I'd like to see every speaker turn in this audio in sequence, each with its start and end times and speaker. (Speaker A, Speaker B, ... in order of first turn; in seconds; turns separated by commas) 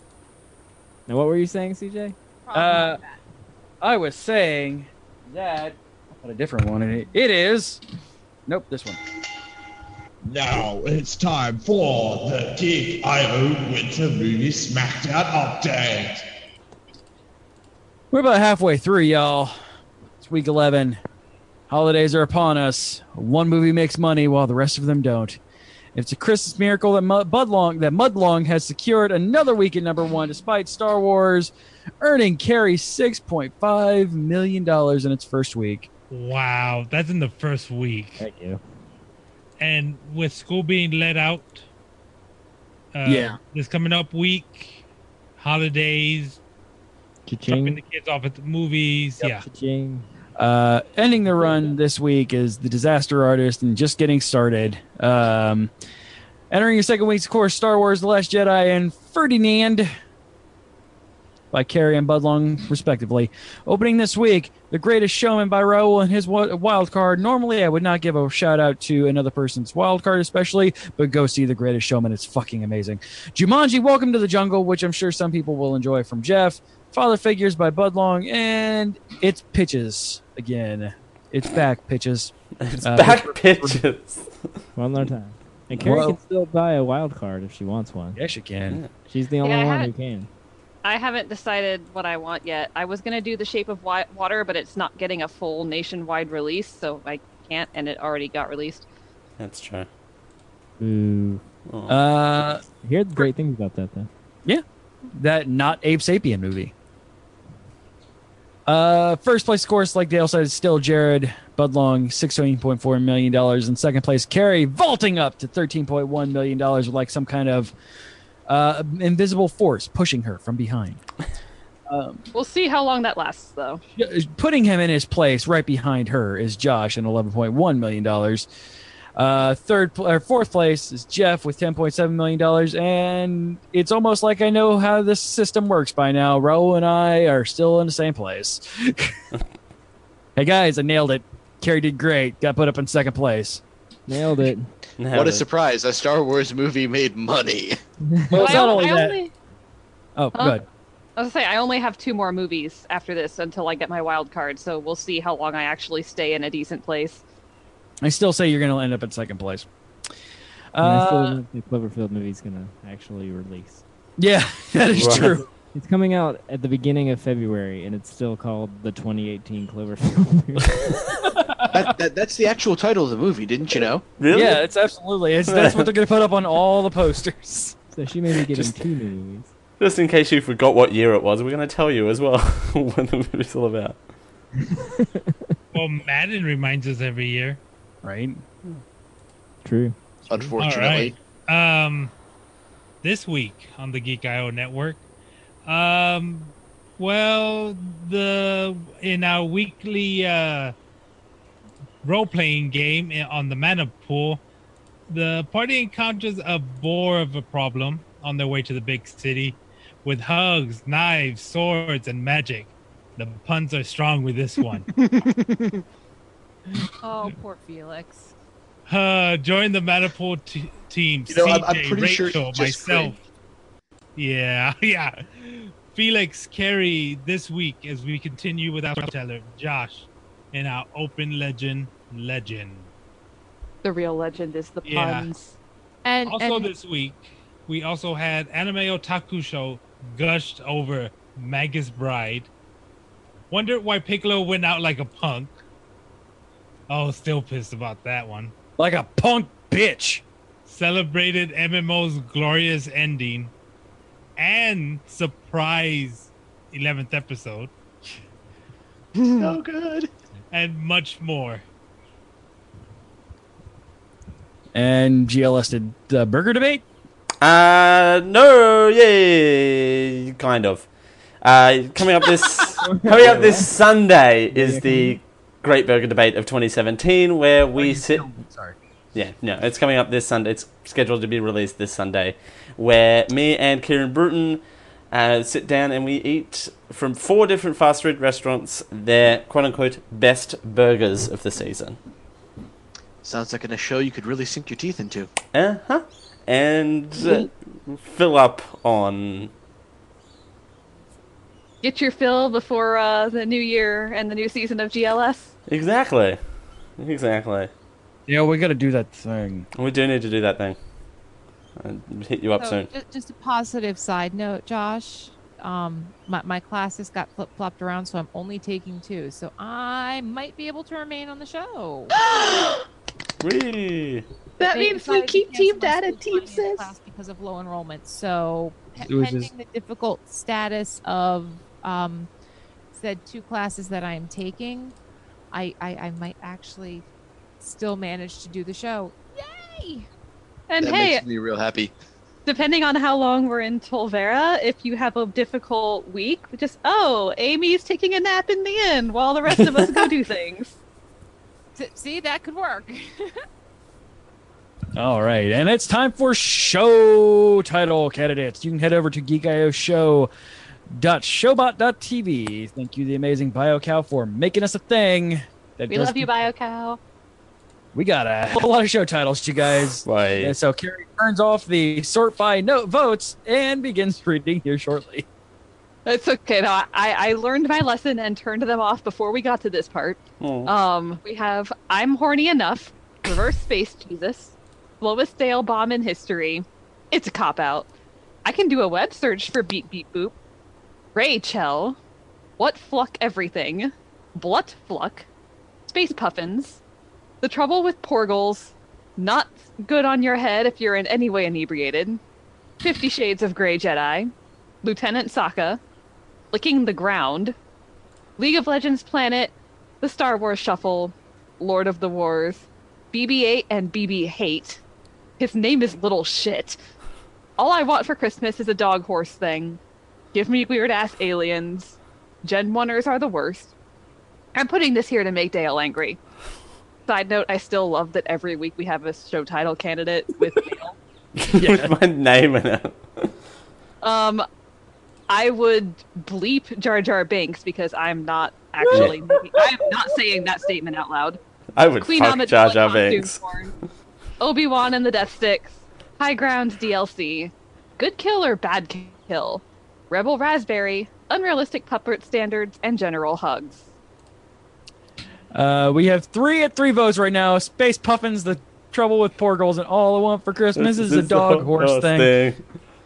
Speaker A: 1.1-2.1, Speaker B: 2.5-3.2, Speaker C: 2.5-3.0, Speaker C: 3.8-7.8, Speaker C: 8.5-9.0, Speaker D: 10.2-16.2, Speaker C: 18.1-19.6, Speaker C: 20.2-21.0, Speaker C: 21.7-25.4, Speaker C: 25.9-35.9, Speaker E: 36.1-38.2, Speaker A: 38.2-38.6, Speaker E: 39.6-41.6, Speaker E: 42.9-44.8, Speaker C: 43.0-43.4, Speaker E: 45.4-46.4, Speaker A: 47.2-47.8, Speaker E: 47.5-49.4, Speaker A: 49.2-50.1, Speaker C: 50.4-55.7, Speaker A: 51.4-51.7, Speaker C: 56.5-59.9, Speaker C: 61.5-82.3, Speaker F: 82.6-84.3, Speaker C: 82.8-83.8, Speaker A: 84.7-88.2, Speaker C: 85.8-86.2, Speaker C: 88.1-88.8, Speaker A: 89.1-90.3, Speaker G: 89.4-89.9, Speaker G: 90.8-98.8, Speaker F: 99.4-99.9, Speaker A: 100.8-101.4, Speaker F: 101.7-102.0, Speaker C: 101.9-102.6, Speaker A: 102.8-104.1, Speaker C: 105.2-106.7, Speaker C: 108.7-117.7, Speaker C: 118.5-121.0, Speaker C: 121.9-122.2, Speaker G: 122.3-123.8, Speaker C: 124.0-128.5, Speaker C: 129.2-139.1, Speaker C: 140.4-143.6, Speaker A: 144.1-144.7, Speaker F: 145.0-145.4, Speaker H: 145.1-147.8, Speaker A: 148.3-148.7, Speaker C: 148.3-149.2, Speaker G: 148.4-149.3, Speaker C: 150.2-150.6, Speaker G: 150.3-150.6, Speaker G: 151.2-157.2, Speaker C: 158.0-159.7, Speaker C: 160.7-161.4, Speaker A: 160.8-163.8, Speaker C: 164.2-165.5, Speaker F: 164.9-165.4, Speaker A: 165.7-171.0, Speaker H: 171.7-174.1, Speaker F: 174.2-174.6, Speaker C: 174.3-177.8, Speaker F: 175.5-175.9, Speaker A: 177.9-179.5, Speaker F: 178.5-178.7, Speaker F: 179.8-184.0, Speaker A: 185.0-185.4, Speaker E: 185.7-187.6, Speaker C: 188.0-188.4, Speaker A: 189.6-190.5, Speaker H: 190.3-191.2, Speaker E: 190.6-192.1, Speaker E: 193.0-195.0, Speaker E: 195.6-200.7, Speaker E: 202.0-204.4, Speaker E: 205.1-214.9, Speaker B: 217.0-218.3, Speaker E: 218.8-223.2, Speaker H: 221.3-223.1, Speaker E: 224.2-232.9, Speaker G: 233.8-235.6, Speaker E: 234.8-235.3, Speaker B: 236.0-236.7, Speaker E: 236.2-242.5, Speaker E: 243.5-245.5, Speaker E: 246.9-248.5, Speaker C: 248.8-250.2, Speaker E: 250.7-253.5, Speaker E: 254.4-257.7, Speaker H: 259.3-260.1, Speaker E: 260.5-261.6, Speaker C: 264.7-266.8, Speaker F: 267.4-270.9, Speaker F: 271.4-278.2, Speaker C: 272.8-273.6, Speaker A: 273.2-273.6, Speaker C: 274.6-274.9, Speaker A: 274.6-275.1, Speaker C: 277.7-278.8, Speaker F: 279.1-292.0, Speaker H: 293.2-295.3, Speaker F: 295.5-299.5, Speaker G: 301.8-305.5, Speaker F: 305.7-306.4, Speaker F: 307.0-307.7, Speaker C: 308.3-309.7, Speaker F: 309.8-310.8, Speaker F: 311.8-312.9, Speaker B: 312.6-322.1, Speaker F: 323.4-324.2, Speaker B: 324.7-332.3, Speaker C: 329.0-329.5, Speaker B: 332.9-334.9, Speaker B: 335.5-337.0, Speaker B: 337.6-340.1, Speaker G: 340.7-341.2, Speaker H: 340.8-341.9, Speaker G: 342.4-350.8, Speaker B: 351.8-353.3, Speaker C: 354.9-360.3, Speaker C: 360.9-366.3, Speaker G: 365.9-367.0, Speaker C: 367.9-375.2, Speaker F: 370.0-370.5, Speaker G: 376.1-387.9, Speaker F: 380.4-380.7, Speaker G: 388.4-390.3, Speaker G: 391.1-392.0, Speaker G: 392.6-395.2, Speaker G: 395.9-396.8, Speaker G: 397.4-402.2, Speaker G: 402.8-404.3, Speaker G: 404.8-405.8, Speaker G: 406.5-407.6, Speaker G: 408.4-414.8, Speaker G: 415.4-416.8, Speaker G: 417.6-419.8, Speaker G: 420.3-423.7, Speaker G: 424.5-426.2, Speaker G: 427.1-431.0, Speaker F: 431.4-433.3, Speaker C: 431.6-431.9, Speaker G: 434.0-434.4, Speaker G: 435.3-441.4, Speaker C: 438.9-439.1, Speaker F: 438.9-439.2, Speaker F: 441.8-443.4, Speaker G: 442.0-443.7, Speaker G: 444.4-453.8, Speaker C: 455.5-462.3, Speaker F: 460.8-462.6